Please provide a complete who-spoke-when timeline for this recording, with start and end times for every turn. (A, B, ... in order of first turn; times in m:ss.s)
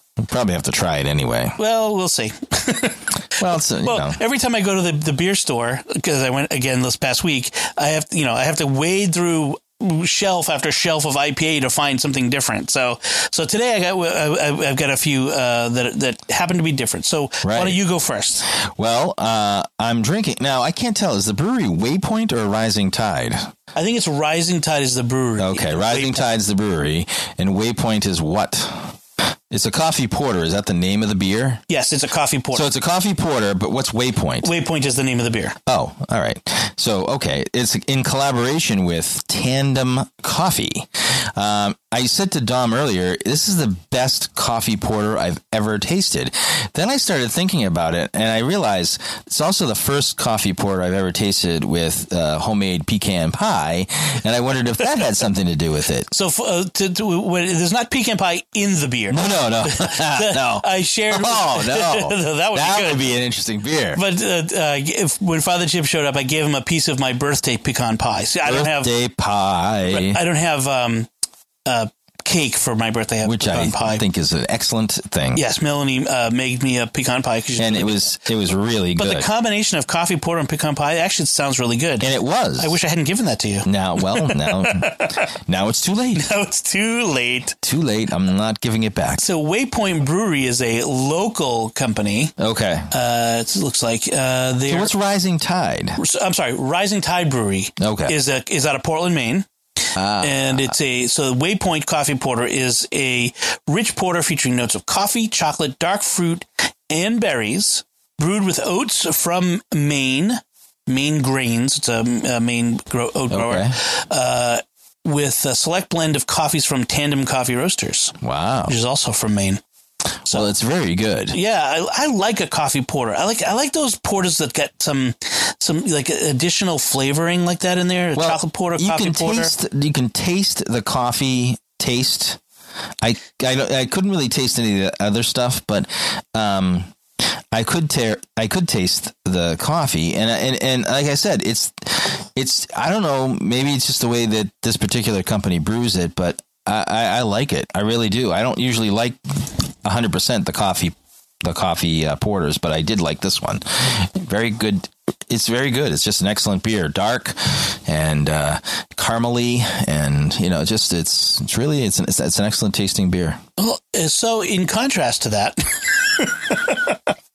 0:00.2-0:01.6 A
0:01.6-0:18.4 B
0:03.4-0:04.2 A
0:17.4-0:17.8 A
0:18.5-0:23.5 A
0:23.7-0:26.2 B
0:25.4-0:28.9 A
0:29.5-0:31.6 A
0:31.7-0:32.7 B
0:32.5-0:34.5 A
0:34.4-0:35.6 B
0:35.7-0:56.1 A
0:56.1-1:03.1 B
0:59.1-1:04.0 A
1:03.9-1:08.9 B
1:08.4-1:10.2 A
1:09.9-1:11.1 B
1:11.6-1:14.0 B
1:13.2-1:15.4 A
1:15.3-1:18.2 B
1:17.6-1:19.3 A
1:19.0-1:25.2 B
1:22.0-1:22.8 A
1:23.6-1:26.2 A
1:26.1-1:27.6 B
1:27.6-1:29.2 A
1:29.2-1:32.3 B
1:32.4-1:32.9 A
1:32.9-1:34.9 B
1:34.7-1:36.0 A
1:36.0-1:39.5 B
1:37.8-1:38.2 A
1:40.0-1:40.7 A
1:40.2-1:58.1 B
1:53.3-1:53.7 A
1:58.2-1:58.7 A
1:58.7-1:59.6 B
2:00.3-2:01.4 A
2:01.3-2:09.5 B
2:08.1-2:12.4 A
2:13.0-2:16.9 A
2:17.5-2:29.2 A
2:29.8-2:43.4 A
2:43.6-2:47.0 B